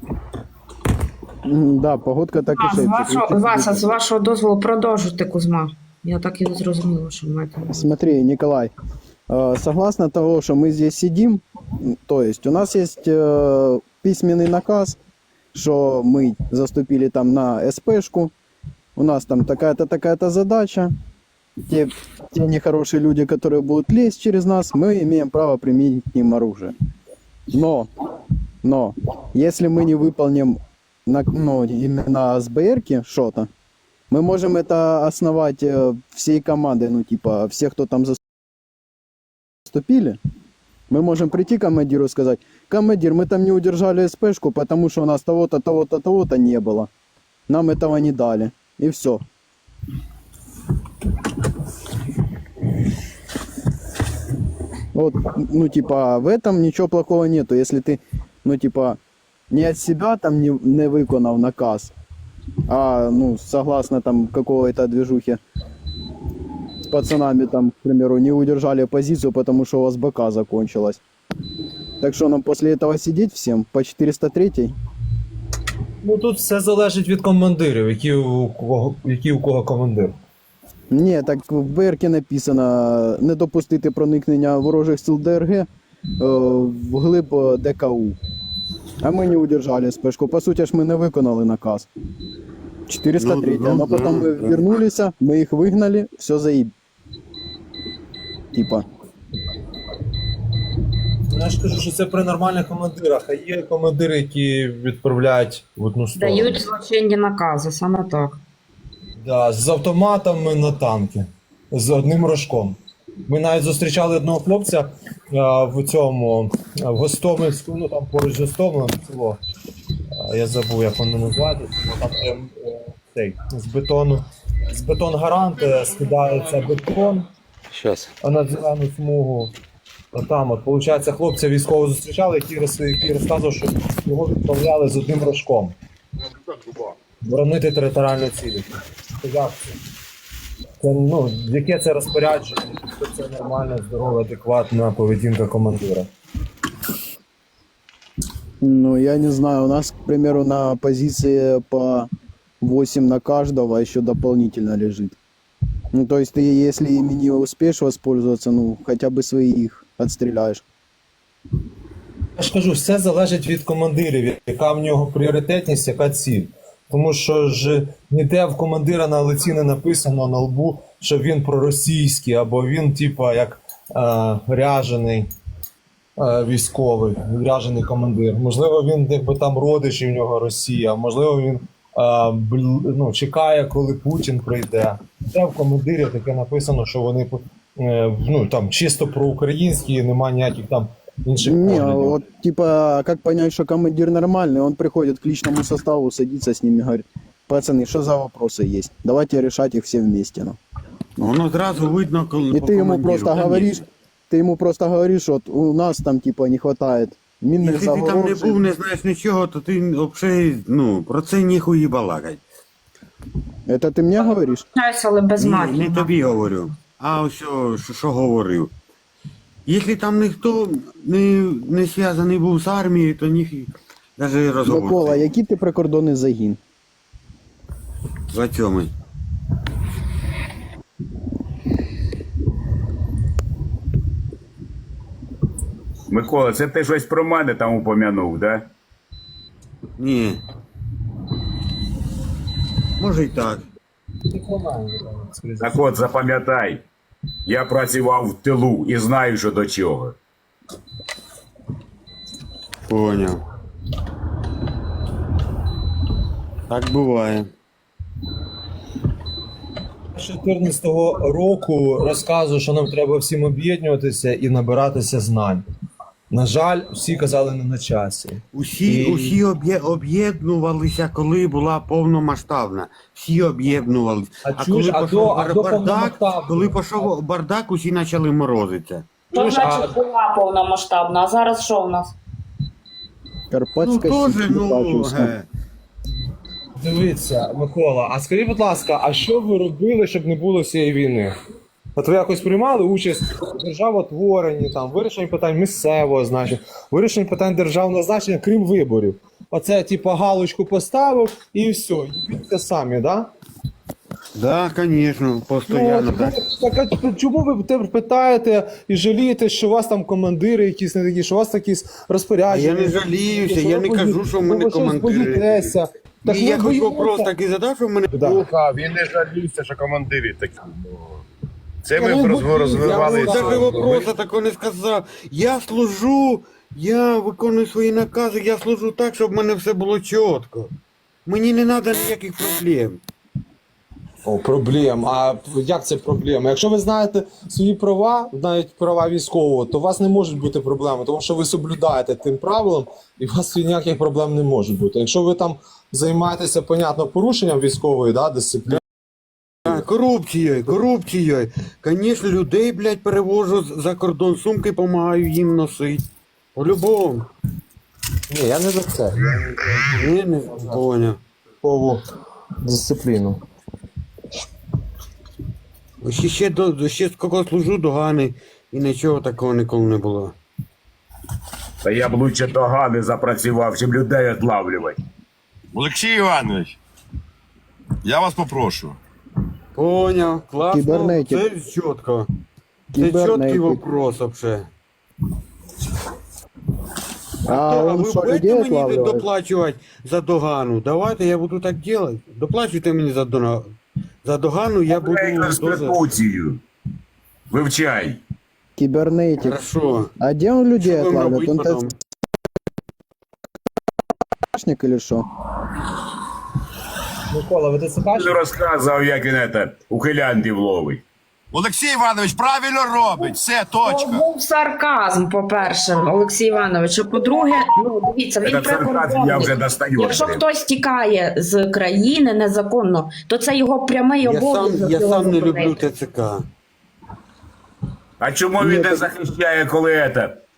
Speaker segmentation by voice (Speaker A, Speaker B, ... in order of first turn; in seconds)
Speaker A: 1.4-3.9, 7.7-8.7, 9.3-15.0, 15.5-18.3, 18.9-20.9, 21.7-26.7, 27.5-27.9, 28.6-33.5, 34.1-38.2, 39.6-40.2, 40.9-46.9, 47.5-49.2, 54.9-59.0, 59.5-61.9, 62.7-65.4, 66.9-71.0, 72.0-74.7, 80.9-85.7, 86.2-88.2, 89.0-91.9, 92.9-96.7, 98.5-98.8, 148.6-152.1, 152.6-155.2, 155.9-160.6, 191.4-200.6, 202.5-208.6, 213.7-214.7, 224.6-226.6, 283.5-285.3, 380.7-381.4, 382.9-383.9, 387.4-389.2, 398.8-399.6, 400.2-401.9, 404.5-405.3
Speaker B: 2.5-7.8, 106.1-108.4, 214.7-216.2, 279.3-282.1, 413.8-425.9
Speaker C: 76.0-80.2, 101.3-106.6, 109.2-119.4, 120.1-127.3, 128.2-129.5, 130.1-135.8, 137.2-138.7, 139.2-139.7, 140.8-146.1, 162.4-175.3, 176.2-192.2, 244.3-245.9, 260.1-265.6, 266.3-269.4, 274.4-277.1, 279.3-280.0, 286.8-291.3, 291.9-303.3, 305.7-317.3, 318.1-318.4, 321.9-324.1, 334.2-348.8, 358.3-359.8, 361.6-362.0, 362.6-363.4, 407.3-408.4
Speaker D: 93.2-94.6, 201.2-203.8, 207.6-212.4, 215.4-218.7, 219.7-225.2, 228.3-228.9, 240.0-240.4, 243.0-243.7, 252.9-253.4, 256.7-257.5, 268.5-279.1, 283.8-285.4, 304.4-306.4, 312.5-315.6, 316.2-318.1, 322.8-330.7, 331.2-333.0, 349.6-357.3, 359.9-361.2, 366.0-370.3, 379.7-382.3, 383.0-384.7, 387.5-396.0, 399.4-400.1, 400.8-401.9, 424.2-426.4
Speaker E: 236.1-238.7, 245.6-246.8, 247.4-250.2, 371.8-375.0, 394.9-396.6, 397.5-398.2, 408.1-411.0, 418.4-420.4, 428.2-430.4
Speaker F: 318.2-321.2, 321.8-323.9, 375.7-376.8, 378.0-379.0, 411.5-414.2